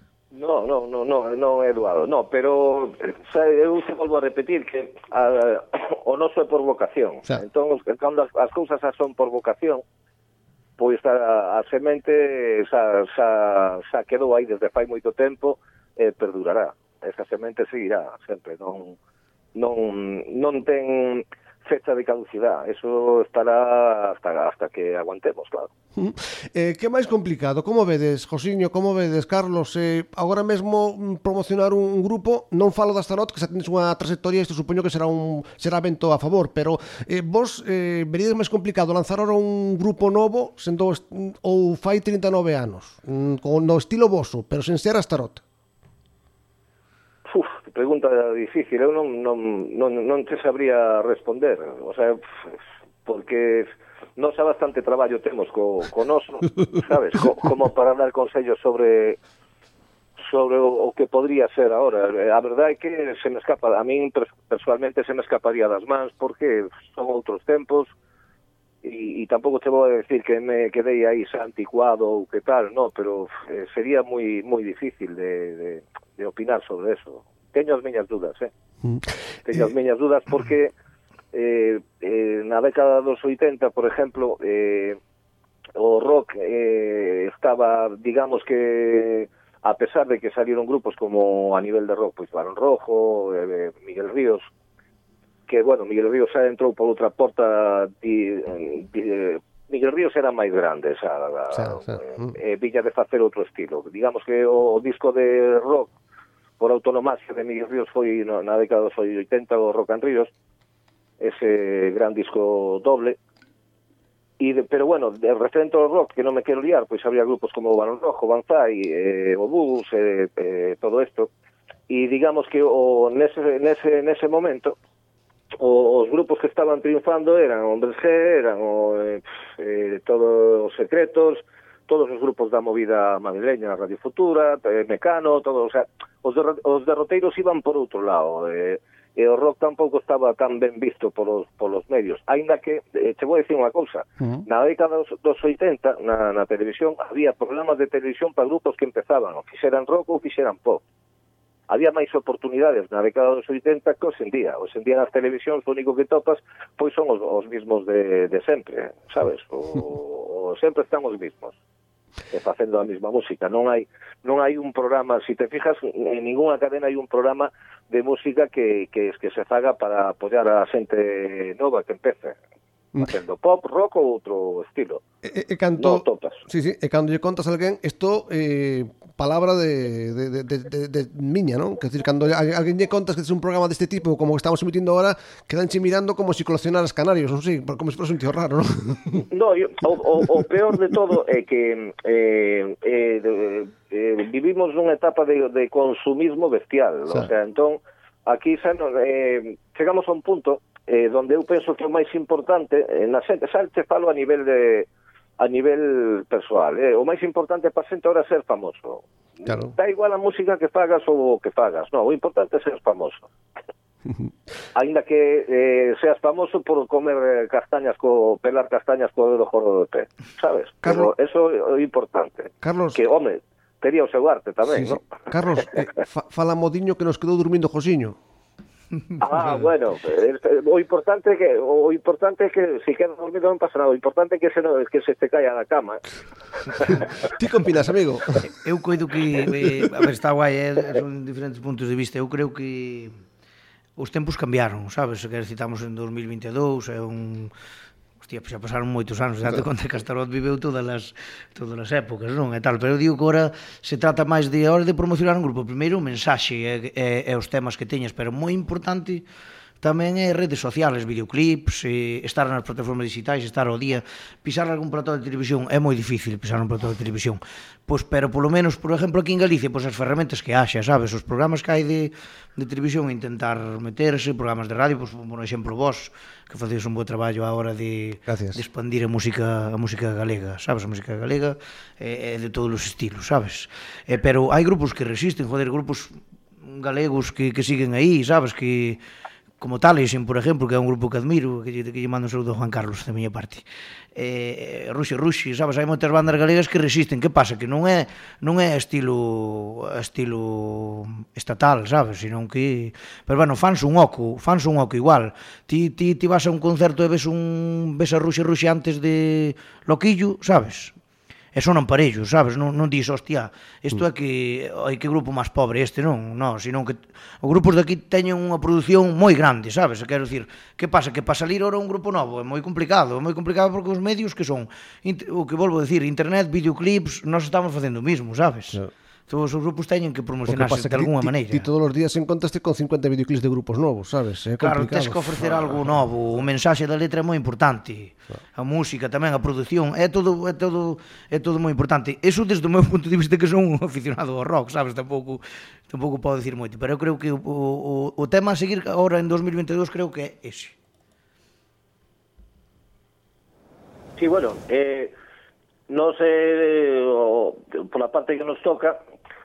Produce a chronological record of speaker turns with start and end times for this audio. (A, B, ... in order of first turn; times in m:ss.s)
0:00.3-0:09.8 A
0:10.8-0:19.0 A
0:19.6-0:25.7 A
0:26.0-0:45.4 B
0:47.3-0:52.2 A
0:53.1-0:59.2 A
1:00.3-1:07.9 A
1:08.8-1:18.5 A
1:19.5-1:20.7 A
1:21.3-1:25.0 A
1:25.8-1:34.5 A
1:35.5-1:45.9 A
1:41.5-1:42.3 B
1:46.6-1:50.3 A
1:51.2-1:53.2 A
1:54.4-2:01.3 A
2:01.9-2:04.8 A
2:05.6-2:30.8 A
2:31.7-2:41.6 A
2:42.3-2:52.4 A
2:53.0-2:55.0 A
2:55.2-3:09.3 B
2:55.8-2:56.4 A
3:09.3-3:24.9 A
3:25.4-3:33.3 A
3:29.5-3:29.7 B
3:34.8-3:45.0 A
3:40.8-3:41.1 B
3:42.6-3:43.0 B
3:44.7-3:48.2 B
3:49.2-3:56.0 A
3:56.8-3:57.0 A
3:57.2-3:58.4 B
3:58.4-4:03.1 C
4:04.0-4:07.5 C
4:08.2-4:19.2 C
4:19.8-4:49.0 C
4:38.3-4:38.6 B
4:49.6-5:11.0 C
5:11.5-5:31.7 C
5:30.5-5:35.6 B
5:34.6-5:50.7 C
5:54.2-5:55.1 A
5:55.9-5:59.0 A